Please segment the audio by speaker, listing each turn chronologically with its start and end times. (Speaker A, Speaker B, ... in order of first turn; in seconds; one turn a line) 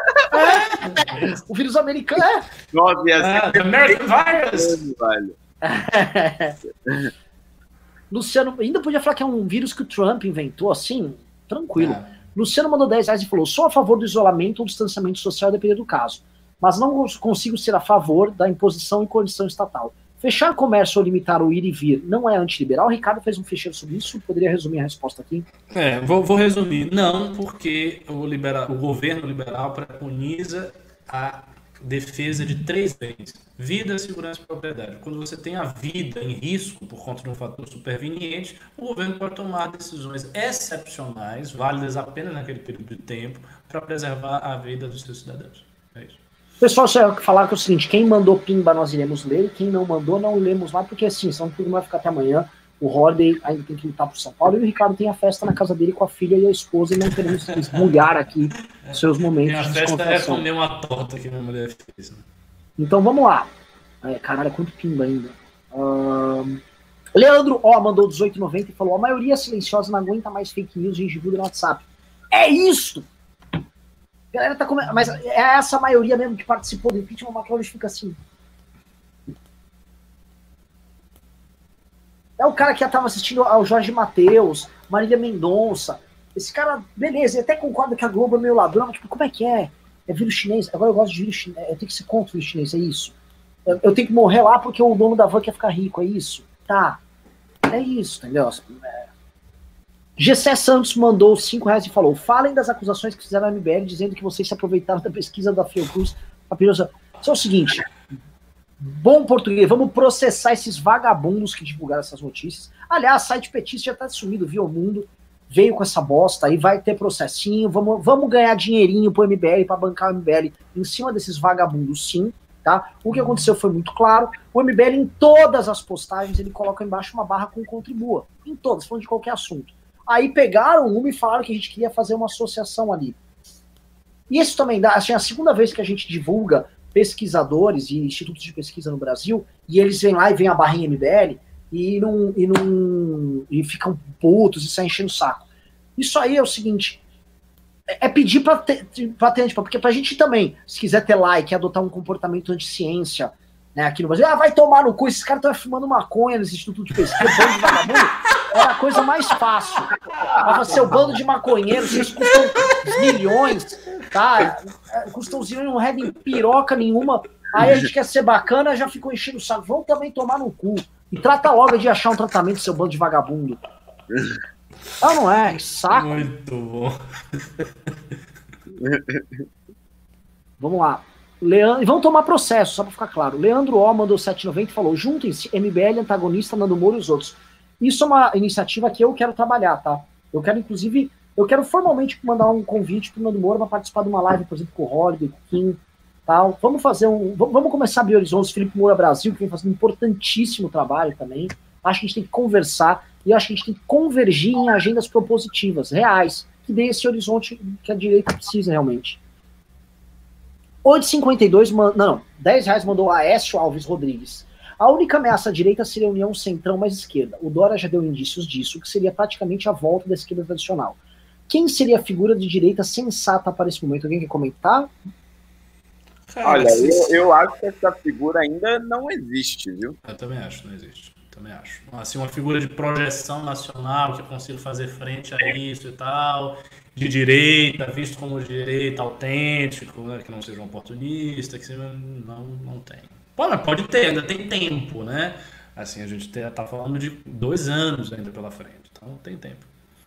Speaker A: 0.3-2.4
Speaker B: 0.4-1.3
Speaker C: 2.7-4.0
Speaker B: 3.2-4.8
Speaker C: 4.5-5.3
Speaker A: 5.6-6.5
Speaker A: 8.1-25.4
Speaker B: 11.8-12.1
Speaker B: 25.7-46.2
Speaker A: 46.6-60.5
Speaker B: 57.5-57.9
Speaker B: 58.8-62.2
Speaker A: 62.8-63.5
Speaker A: 64.0-66.6
Speaker A: 67.2-73.1
Speaker A: 74.3-78.2
Speaker A: 82.4-93.1
Speaker A: 93.7-97.0
Speaker A: 97.7-98.9
Speaker A: 100.2-107.9
Speaker A: 108.8-133.2
Speaker A: 134.3-145.4
Speaker A: 146.0-147.0
Speaker A: 147.9-173.6
Speaker C: 174.1-174.4
Speaker A: 175.0-176.3
Speaker B: 175.9-177.7
Speaker C: 178.8-179.4
Speaker A: 180.6-209.2
Speaker A: 210.8-221.0
Speaker A: 221.5-224.9
Speaker B: 226.3-227.1
Speaker C: 226.4-230.0
Speaker B: 230.0-249.7